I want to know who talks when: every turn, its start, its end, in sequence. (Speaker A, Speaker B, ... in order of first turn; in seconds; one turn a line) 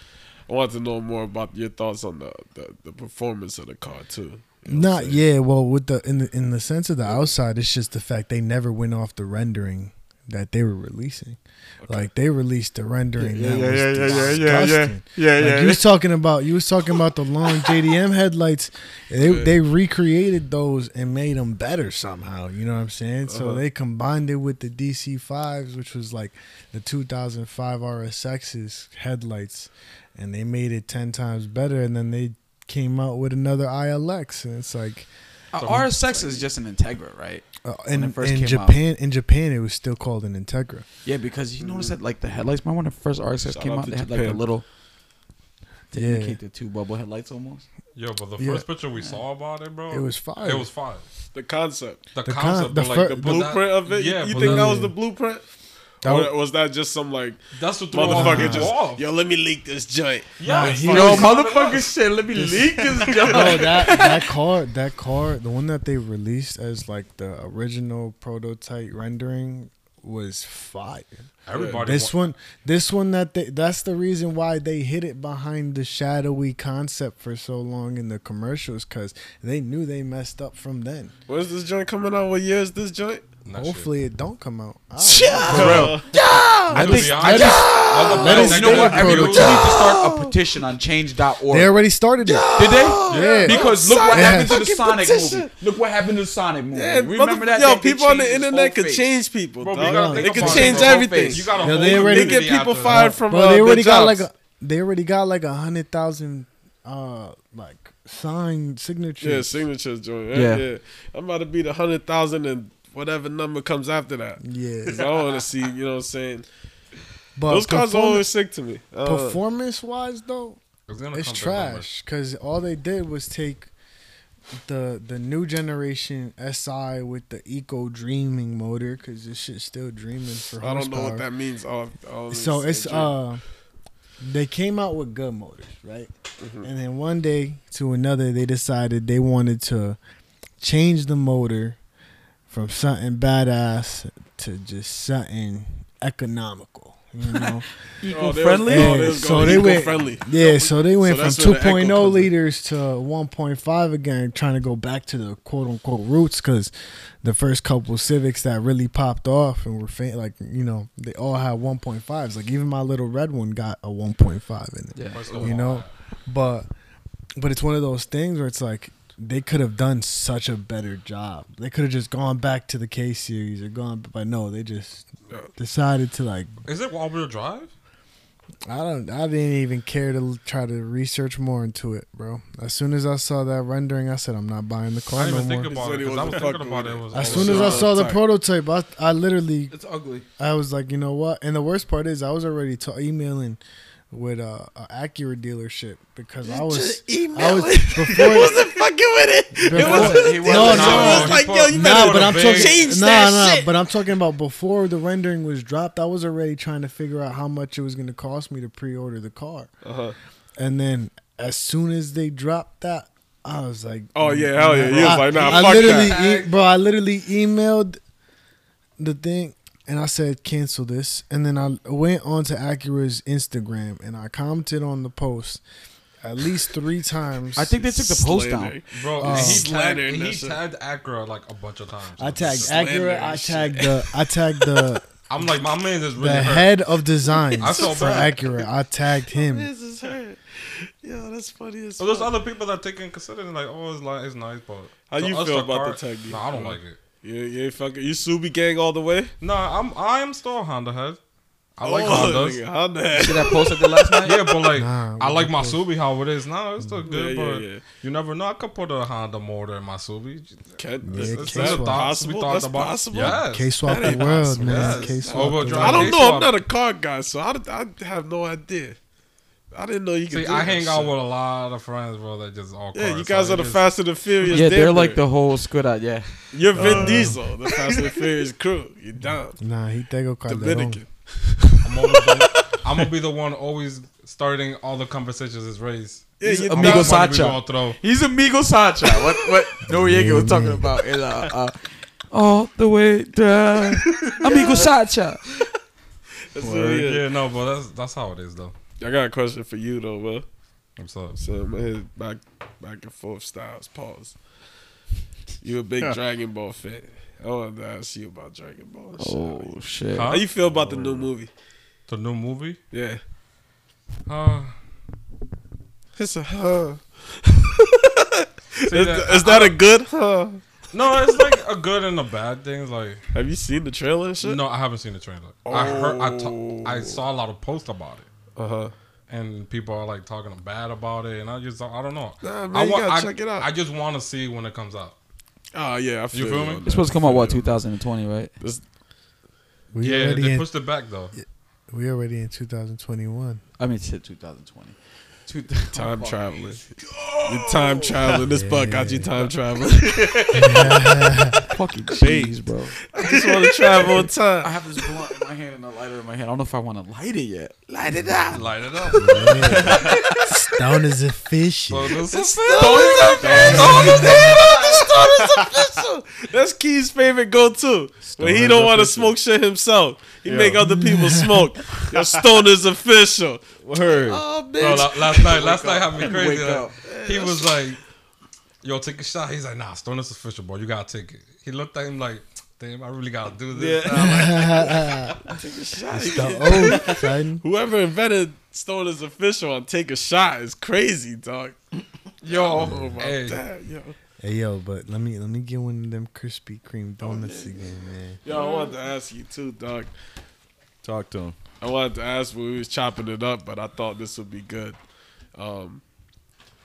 Speaker A: 0.5-5.2
Speaker B: 4.7-35.1
Speaker A: 11.8-12.1
Speaker C: 13.2-15.9
Speaker A: 19.2-19.5
Speaker A: 23.3-23.6
Speaker D: 35.5-38.8
Speaker E: 35.6-35.9
Speaker A: 36.1-36.4
Speaker B: 37.6-40.9
Speaker D: 41.0-44.6
Speaker A: 41.6-42.0
Speaker A: 43.5-44.4
Speaker D: 45.9-47.7
Speaker B: 45.9-46.4
Speaker E: 48.0-51.0
Speaker B: 48.4-48.7
Speaker B: 49.9-50.7
Speaker A: 51.3-52.0
Speaker E: 52.1-54.9
Speaker B: 52.2-53.4
Speaker A: 53.0-55.4
Speaker B: 54.3-54.9
Speaker B: 56.0-56.3
Speaker A: 56.0-57.4
Speaker E: 57.5-59.1
Speaker A: 57.9-60.3
Speaker B: 58.0-58.7
Speaker E: 60.4-61.9
Speaker B: 60.5-61.4
Speaker D: 60.6-64.3
Speaker B: 62.4-71.3
Speaker E: 63.1-63.5
Speaker E: 71.5-72.3
Speaker A: 71.5-71.8
Speaker B: 71.8-81.1
Speaker A: 81.3-83.3
Speaker E: 83.5-83.9
Speaker B: 83.5-86.0
Speaker A: 85.0-86.8
Speaker D: 85.5-86.0
Speaker C: 85.5-86.2
Speaker D: 86.6-91.8
Speaker B: 86.7-89.8
Speaker E: 86.7-89.8
Speaker A: 87.5-88.3
Speaker A: 89.3-90.3
Speaker B: 91.5-92.5
Speaker A: 92.2-95.5
Speaker D: 92.6-99.1
Speaker B: 93.1-94.7
Speaker E: 93.1-93.5
Speaker A: 96.8-104.2
Speaker E: 99.6-103.1
Speaker B: 99.8-100.9
Speaker D: 100.3-101.5
Speaker B: 101.6-109.6
Speaker A: 109.2-116.5
Speaker D: 110.3-110.7
Speaker B: 114.4-115.1
Speaker B: 117.4-118.3
Speaker A: 117.5-119.4
Speaker B: 119.0-120.6
Speaker E: 120.9-121.9
Speaker B: 121.1-123.7
Speaker B: 124.6-131.2
Speaker A: 130.6-133.1
Speaker B: 132.3-133.4
Speaker B: 134.2-136.1
Speaker A: 136.4-136.7
Speaker B: 136.6-140.0
Speaker B: 140.6-141.8
Speaker B: 142.5-147.7
Speaker D: 148.0-149.9
Speaker A: 148.1-152.3
Speaker B: 148.7-156.7
Speaker B: 157.2-166.7
Speaker D: 164.9-165.3
Speaker E: 165.1-165.9
Speaker B: 167.4-176.5
Speaker E: 176.7-177.7
Speaker B: 178.7-185.8
Speaker E: 185.2-188.0
Speaker A: 185.7-188.2
Speaker B: 187.1-189.8
Speaker D: 189.7-190.2
Speaker B: 190.4-193.6
Speaker B: 194.1-198.6
Speaker A: 196.4-203.7
Speaker B: 199.6-209.7
Speaker D: 199.7-201.4
Speaker E: 199.9-202.9
Speaker A: 209.8-210.2
Speaker B: 210.6-218.0
Speaker A: 214.1-216.2
Speaker E: 214.9-216.5
Speaker B: 219.0-225.6
Speaker B: 226.2-227.7
Speaker D: 227.6-228.8
Speaker A: 227.6-230.6
Speaker E: 228.9-232.8
Speaker B: 229.2-229.7
Speaker B: 232.2-235.0
Speaker A: 232.5-234.1
Speaker E: 235.3-236.7
Speaker B: 236.2-239.7
Speaker A: 237.5-238.7
Speaker E: 237.6-238.5
Speaker A: 239.3-242.3
Speaker E: 242.0-247.0
Speaker A: 245.1-249.3
Speaker E: 249.4-251.2
Speaker E: 251.8-252.6
Speaker A: 251.8-253.9
Speaker D: 253.1-254.6
Speaker E: 254.2-266.5
Speaker B: 254.7-255.8
Speaker A: 257.1-257.8
Speaker A: 260.8-269.0
Speaker B: 261.0-262.1
Speaker B: 263.5-266.2
Speaker A: 269.7-271.1
Speaker E: 270.3-274.7
Speaker A: 272.9-275.2
Speaker D: 274.5-276.9
Speaker A: 276.5-279.6
Speaker B: 276.8-277.4
Speaker C: 276.8-277.3
Speaker B: 279.6-281.0
Speaker A: 280.5-282.5
Speaker E: 281.8-288.0
Speaker A: 286.4-287.3
Speaker D: 286.4-295.4
Speaker B: 289.9-290.9
Speaker A: 294.5-294.9
Speaker A: 296.5-297.2
Speaker C: 296.6-297.1
Speaker E: 296.9-298.7
Speaker A: 299.0-300.5
Speaker E: 301.0-301.4
Speaker A: 301.4-304.4
Speaker A: 305.6-309.7
Speaker D: 309.2-310.4
Speaker E: 310.1-311.3
Speaker A: 310.3-311.5
Speaker E: 312.1-312.8
Speaker A: 312.9-313.2
Speaker E: 314.3-314.7
Speaker A: 316.2-320.6
Speaker E: 318.9-319.8
Speaker E: 320.9-323.2
Speaker A: 323.3-324.6
Speaker E: 324.4-328.3
Speaker A: 325.7-327.2
Speaker A: 328.6-328.9
Speaker E: 329.3-335.1
Speaker A: 332.4-333.7
Speaker A: 335.7-337.7
Speaker E: 336.3-337.1
Speaker D: 336.8-338.5
Speaker B: 339.9-340.7
Speaker E: 340.0-341.3
Speaker B: 341.4-343.6
Speaker D: 343.8-348.2
Speaker A: 345.9-351.1
Speaker B: 348.5-349.3
Speaker B: 350.6-351.6
Speaker D: 351.7-353.0
Speaker C: 352.2-352.6
Speaker A: 353.1-354.8
Speaker D: 354.6-357.9
Speaker A: 357.9-360.7
Speaker E: 358.5-360.0
Speaker B: 359.2-362.2
Speaker C: 359.7-360.2
Speaker E: 361.9-364.5
Speaker A: 362.3-375.7
Speaker D: 362.7-364.9
Speaker C: 363.4-364.6
Speaker C: 365.2-365.8
Speaker C: 368.3-369.4
Speaker C: 370.5-370.9
Speaker B: 370.8-371.7
Speaker C: 372.1-372.4
Speaker C: 373.8-374.5
Speaker E: 374.8-378.0
Speaker D: 375.5-376.9
Speaker A: 377.0-377.8
Speaker E: 378.8-385.1
Speaker C: 383.7-384.8
Speaker B: 384.1-385.4
Speaker A: 385.5-391.8
Speaker B: 386.1-387.6
Speaker D: 386.2-386.6
Speaker C: 386.8-387.2
Speaker D: 392.4-392.9
Speaker A: 392.5-394.1
Speaker B: 392.8-393.1
Speaker E: 392.8-393.6
Speaker B: 394.4-398.4
Speaker A: 397.2-397.8
Speaker A: 398.4-400.1
Speaker D: 398.5-398.9
Speaker C: 401.0-401.6
Speaker A: 401.8-405.0
Speaker A: 405.6-406.0